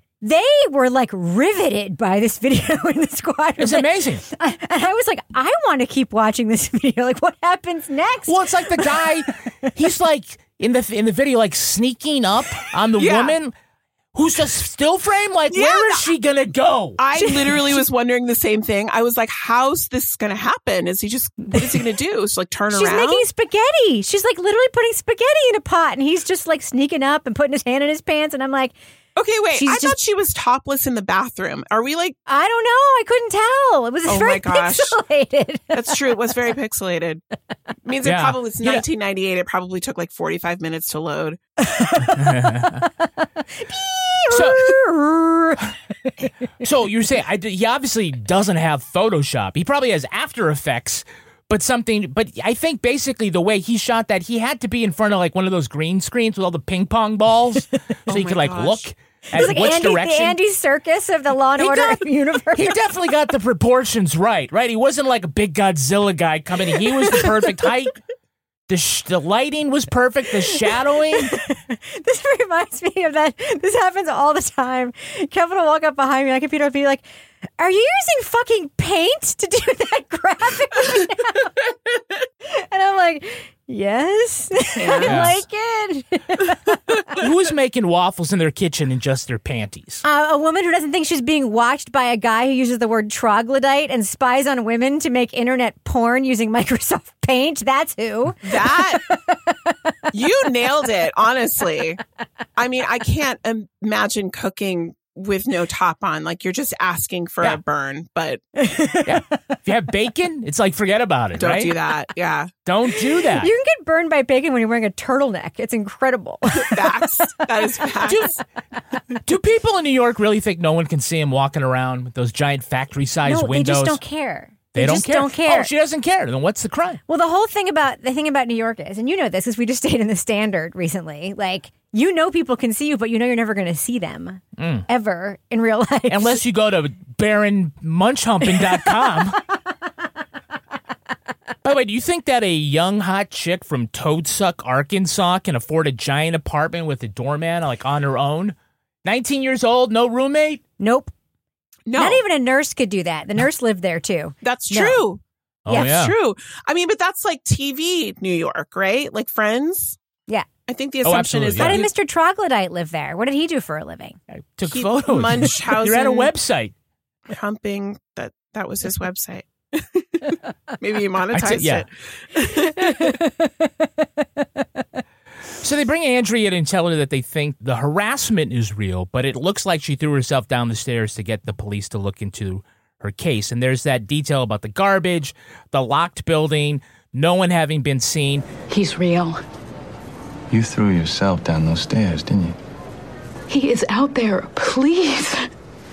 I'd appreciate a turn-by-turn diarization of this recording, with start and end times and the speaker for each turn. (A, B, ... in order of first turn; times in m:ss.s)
0:00.2-0:09.0 A
0:03.6-0:04.2 B
0:08.3-0:13.5 B
0:13.0-0:13.4 C
0:14.1-0:17.0 B
0:15.5-0:16.1 C
0:17.0-0:23.2 C
0:17.1-0:17.8 A
0:21.5-0:21.8 A
0:22.7-0:28.8 A
0:29.2-0:32.2 C
0:29.5-0:30.0 A
0:32.3-0:36.1 A
0:34.0-0:35.0 C
0:35.7-0:37.2 C
0:37.8-0:41.4 C
0:38.0-0:38.8 B
0:41.6-0:42.9 A
0:42.1-0:42.8 B
0:43.6-0:45.6 A
0:44.3-0:44.8 B
0:46.6-1:00.4 B
0:58.1-0:58.8 C
0:59.3-1:02.8 A
1:01.6-1:08.0 B
1:08.7-1:11.3 B
1:11.3-1:17.0 A
1:17.6-1:21.5 A
1:22.4-1:27.0 A
1:24.8-1:25.3 C
1:25.0-1:25.4 B
1:27.2-1:30.0 B
1:30.0-1:39.0 A
1:38.4-1:39.0 C
1:40.1-1:42.0 C
1:42.6-1:48.4 C
1:48.6-1:49.1 A
1:49.0-1:51.7 B
1:51.4-1:52.5 C
1:52.6-1:53.5 B
1:53.4-1:56.8 A
1:56.5-1:58.4 C
1:58.0-1:58.3 B
1:59.2-2:04.0 B
2:03.2-2:05.7 A
2:04.7-2:07.0 B
2:07.1-2:16.4 A
2:14.6-2:14.8 B
2:16.1-2:19.4 B
2:21.6-2:30.6 B
2:30.8-2:31.1 A
2:31.8-2:32.2 C
2:31.9-2:35.0 A
2:34.4-2:40.0 C
2:35.7-2:35.9 A
2:35.7-2:36.1 B
2:40.7-2:41.9 C
2:41.0-2:41.8 B
2:41.6-2:44.2 A
2:44.3-2:46.7 B
2:44.7-2:46.3 C
2:47.3-2:52.8 C
2:51.3-2:51.8 B
2:55.6-3:08.4 B
3:08.7-3:09.4 D
3:10.5-3:12.6 E
3:13.5-3:15.3 D